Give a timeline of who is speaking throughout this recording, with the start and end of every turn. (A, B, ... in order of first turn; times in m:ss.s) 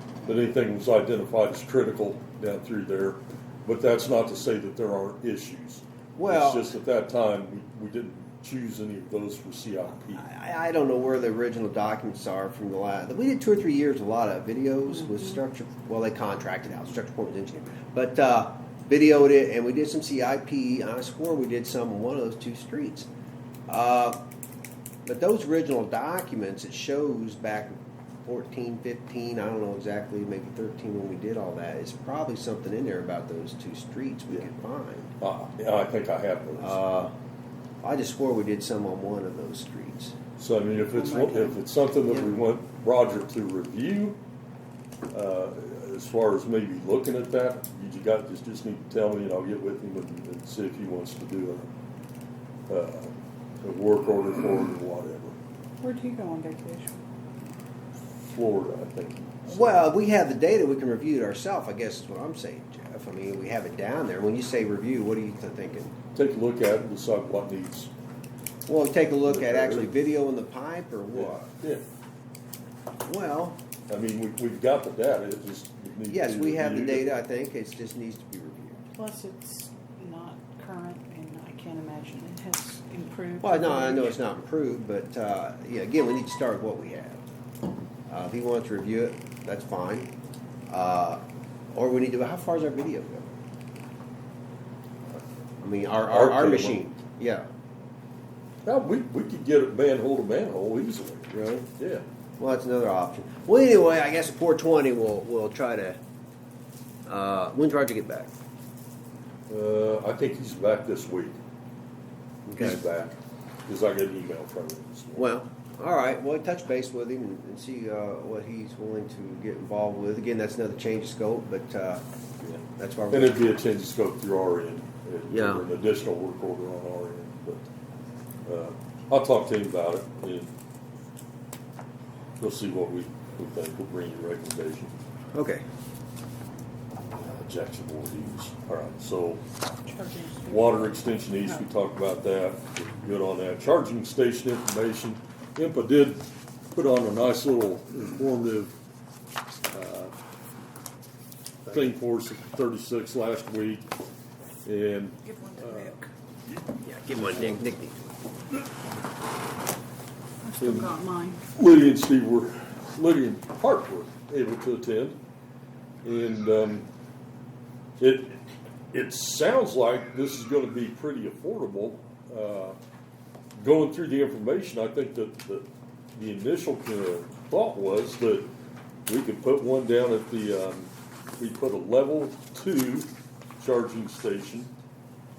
0:00.2-0:10.2 A
0:06.2-0:06.7 B
0:10.1-0:23.1 B
0:23.7-0:24.2 B
0:25.1-0:27.8 B
0:28.3-0:35.1 B
0:35.2-0:36.8 A
0:36.6-0:37.1 B
0:37.8-0:40.2 B
0:40.4-0:44.2 A
0:40.9-0:41.6 C
0:45.1-0:51.7 A
0:52.7-0:55.4 A
0:55.8-0:57.0 C
0:58.2-0:59.9 A
0:59.5-1:05.9 B
1:06.2-1:07.9 A
1:08.7-1:11.5 B
1:09.3-1:09.9 A
1:11.1-1:11.8 A
1:13.0-1:13.6 B
1:13.9-1:17.1 A
1:16.1-1:18.8 B
1:19.0-1:24.2 C
1:23.4-1:27.2 B
1:28.1-1:30.1 B
1:30.7-1:31.2 B
1:31.7-1:33.4 B
1:35.6-1:37.5 B
1:36.1-1:36.8 A
1:38.6-1:42.0 A
1:41.3-1:41.7 B
1:42.4-1:46.0 B
1:47.1-1:48.3 B
1:49.5-1:51.4 A
1:52.5-1:52.8 B
1:52.6-1:53.2 A
1:53.7-1:55.3 A
1:55.2-2:02.0 B
2:02.4-2:07.6 A
2:02.8-2:03.6 B
2:05.3-2:05.7 B
2:08.4-2:10.5 A
2:12.4-2:14.9 A
2:15.3-2:15.6 B
2:17.2-2:19.4 A
2:19.8-2:21.7 C
2:20.5-2:28.8 A
2:29.7-2:30.1 A
2:31.7-2:33.9 A
2:34.6-2:36.0 A
2:36.8-2:38.2 B
2:40.4-2:41.4 C
2:41.5-2:45.2 A
2:46.0-2:46.9 A
2:48.0-2:48.4 A
2:48.9-2:52.8 A
2:53.6-2:58.5 A
2:59.1-3:04.7 A